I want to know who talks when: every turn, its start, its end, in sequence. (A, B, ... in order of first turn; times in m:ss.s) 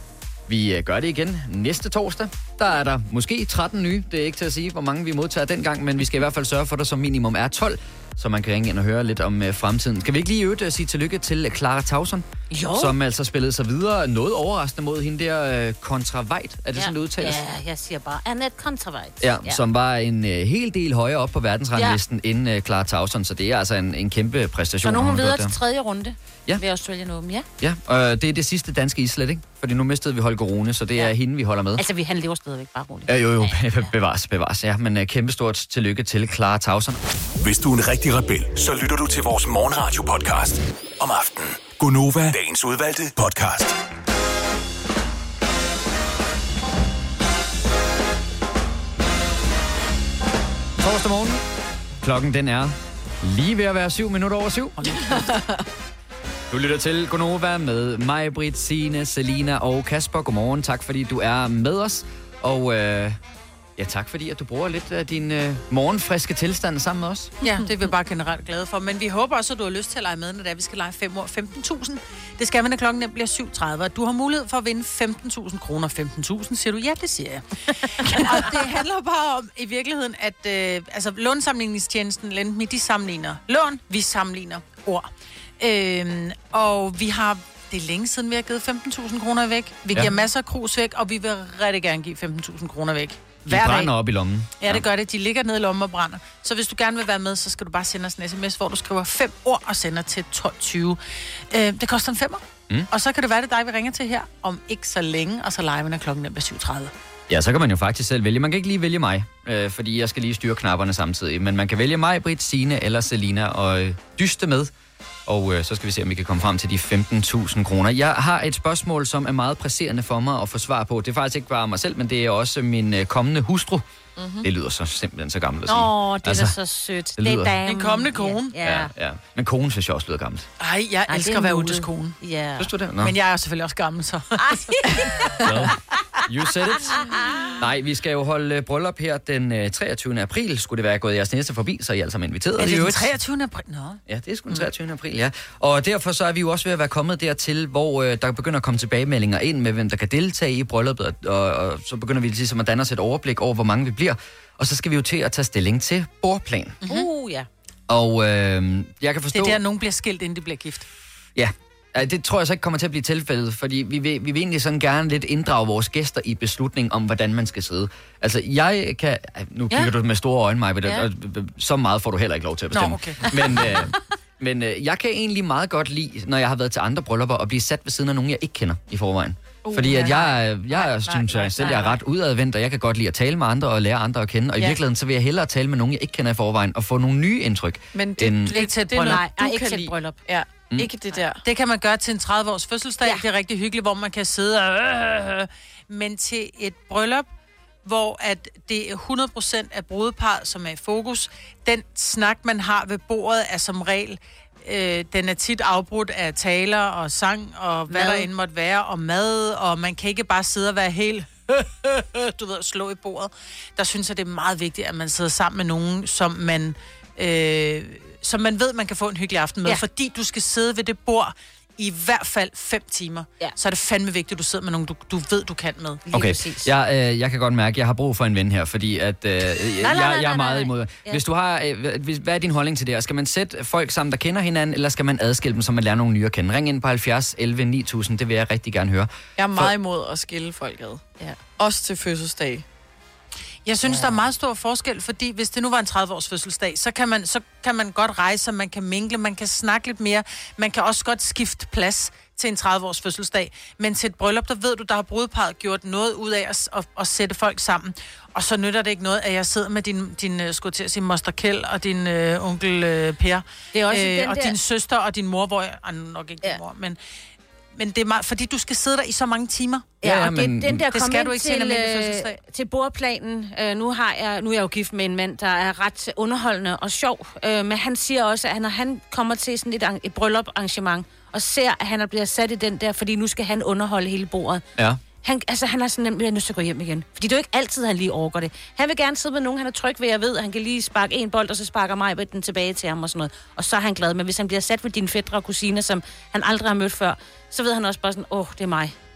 0:00.5-0:17.4 A
0:12.5-0:13.0 B
0:16.7-0:19.6 B
0:19.2-0:25.5 A
0:24.8-0:27.5 B
0:27.6-0:31.8 A
0:31.8-0:33.9 B
0:33.1-0:37.0 A
0:37.4-0:43.8 C
0:50.8-0:51.4 A
0:52.0-0:54.8 A
0:54.8-0:55.4 D
0:55.1-0:55.6 E
0:56.5-1:03.2 A
1:03.8-1:07.3 A
1:07.4-1:33.9 D
1:33.5-1:34.8 A
1:34.6-1:41.0 D
1:41.5-1:46.9 D
1:47.3-1:54.7 A
1:55.3-2:03.8 A
2:04.2-2:04.5 E
2:04.4-2:06.6 A
2:05.7-2:08.9 B
2:07.2-2:07.6 A
2:07.6-2:08.6 D
2:08.6-2:10.5 A
2:10.6-2:12.2 D
2:11.1-2:12.7 B
2:12.6-2:13.2 A
2:13.0-2:15.3 D
2:14.4-2:15.4 B
2:15.4-2:23.1 A
2:16.9-2:17.5 B
2:22.6-2:24.0 D
2:24.1-2:36.8 A
2:36.8-2:37.5 B
2:37.9-2:39.6 A
2:39.3-2:40.9 D
2:41.4-3:08.5 A
2:52.7-2:53.4 D
2:59.7-3:00.3 D
3:01.0-3:01.9 D
3:07.9-3:11.4 E
3:08.5-3:09.2 D
3:08.9-3:10.2 B
3:11.4-3:17.3 D
3:17.8-3:46.0 D
3:27.9-3:28.3 B
3:46.1-3:46.7 B
3:46.1-3:59.7 A
3:49.8-3:51.2 B
3:59.4-4:01.0 E
4:01.6-4:02.6 E
4:03.7-4:27.0 D
4:23.7-4:24.6 B
4:27.8-4:30.0 D
4:30.0-4:30.9 A
4:30.0-4:44.6 B
4:30.9-4:32.4 D
4:44.8-4:45.0 A
4:45.2-4:58.9 B